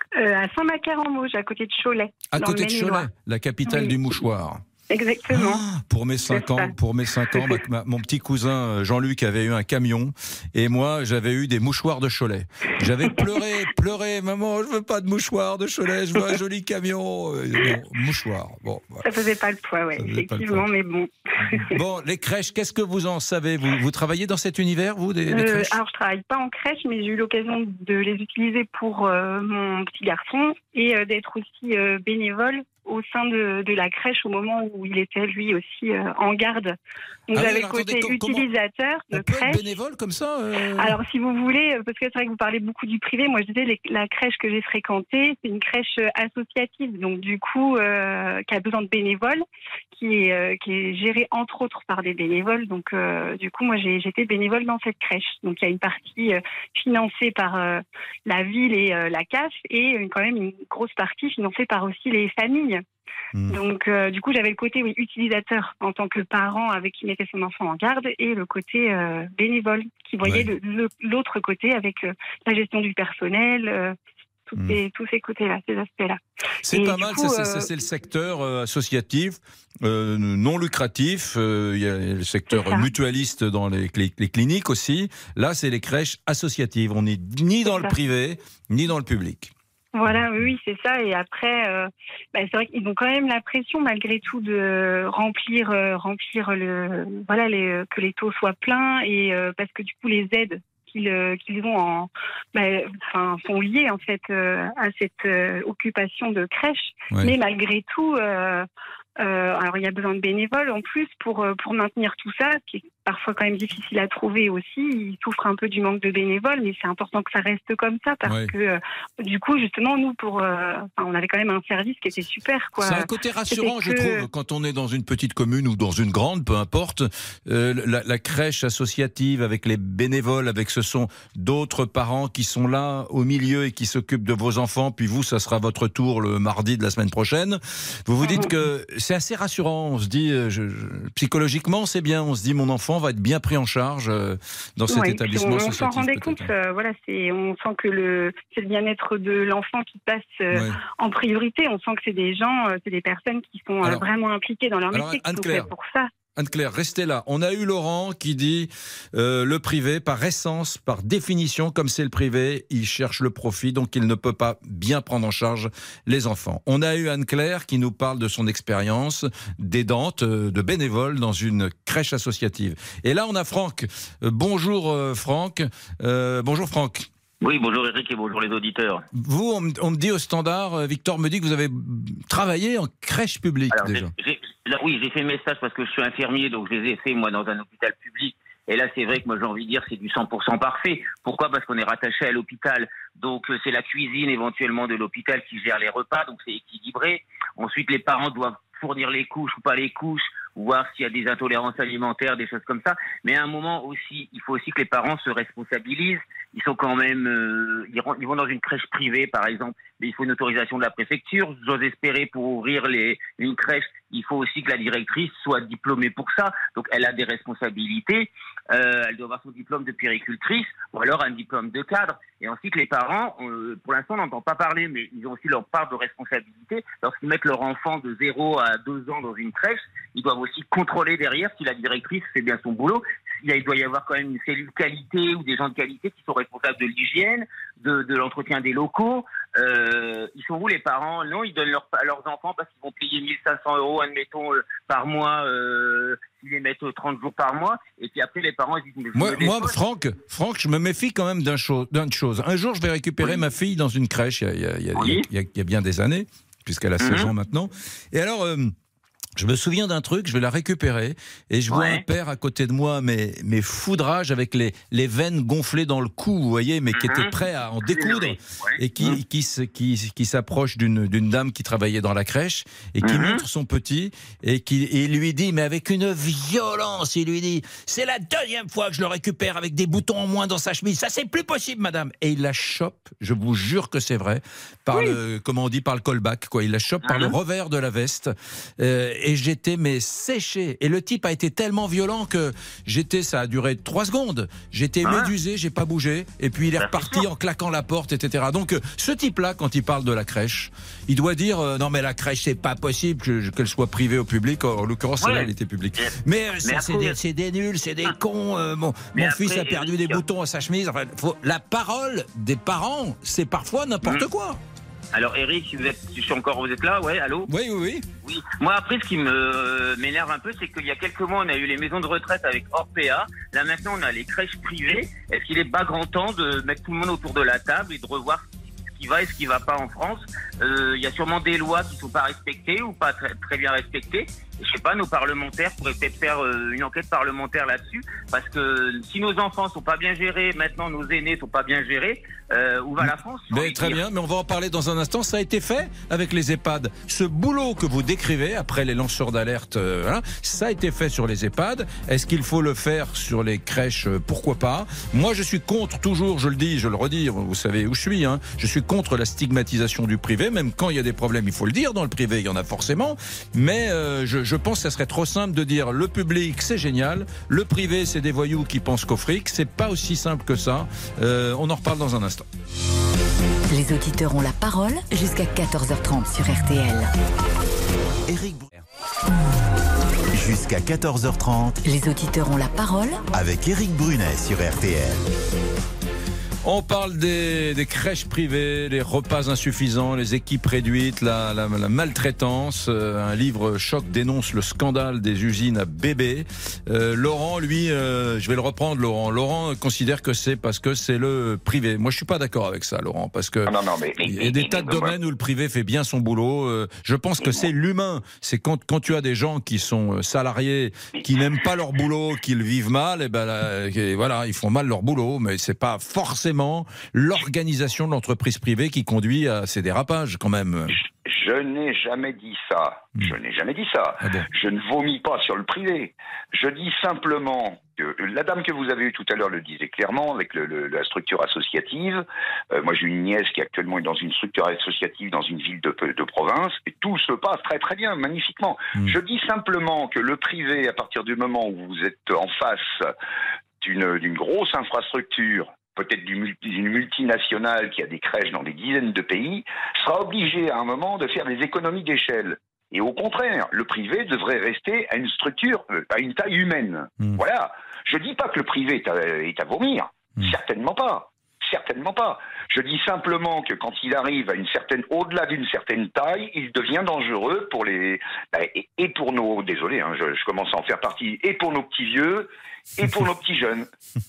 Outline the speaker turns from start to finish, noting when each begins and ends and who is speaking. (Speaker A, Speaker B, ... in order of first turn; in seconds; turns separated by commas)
Speaker A: 0.1-3.1, Speaker B: 2.3-4.6, Speaker A: 3.7-4.0, Speaker A: 4.9-5.6, Speaker B: 5.3-19.0, Speaker A: 6.3-6.7, Speaker A: 7.3-7.6, Speaker A: 19.0-21.7, Speaker B: 20.0-20.6, Speaker B: 21.6-25.8, Speaker A: 25.3-36.8, Speaker A: 37.3-39.6, Speaker B: 37.4-38.5, Speaker B: 39.1-41.0, Speaker A: 40.8-62.8, Speaker A: 63.5-74.0, Speaker B: 70.2-70.5, Speaker A: 74.5-77.7, Speaker B: 76.7-89.5, Speaker A: 82.5-82.9, Speaker A: 87.7-88.0, Speaker A: 89.9-108.7, Speaker A: 109.2-124.3, Speaker B: 118.2-118.5, Speaker B: 122.8-146.5, Speaker A: 138.2-138.5, Speaker A: 144.9-156.1, Speaker B: 150.5-150.8, Speaker B: 154.9-155.7, Speaker B: 156.4-177.1, Speaker C: 177.4-179.1, Speaker B: 179.2-184.1, Speaker C: 183.7-249.8, Speaker B: 249.2-258.7, Speaker C: 254.9-255.3, Speaker C: 257.0-257.3, Speaker B: 259.4-314.6, Speaker C: 261.7-262.0, Speaker C: 266.9-269.2, Speaker C: 273.0-273.4, Speaker C: 287.0-287.4, Speaker C: 295.0-295.3, Speaker C: 296.8-297.3, Speaker C: 305.2-307.2, Speaker C: 309.1-310.2, Speaker C: 315.1-317.5, Speaker B: 317.5-318.1, Speaker C: 318.2-344.0, Speaker B: 343.0-372.5, Speaker D: 373.7-377.1, Speaker E: 378.3-378.7, Speaker E: 380.3-381.8, Speaker D: 381.9-383.2, Speaker E: 383.3-385.2, Speaker B: 386.6-403.7, Speaker F: 403.7-405.1, Speaker B: 404.2-421.0, Speaker F: 407.4-407.7, Speaker F: 420.9-443.1, Speaker B: 424.2-424.5, Speaker F: 443.8-473.9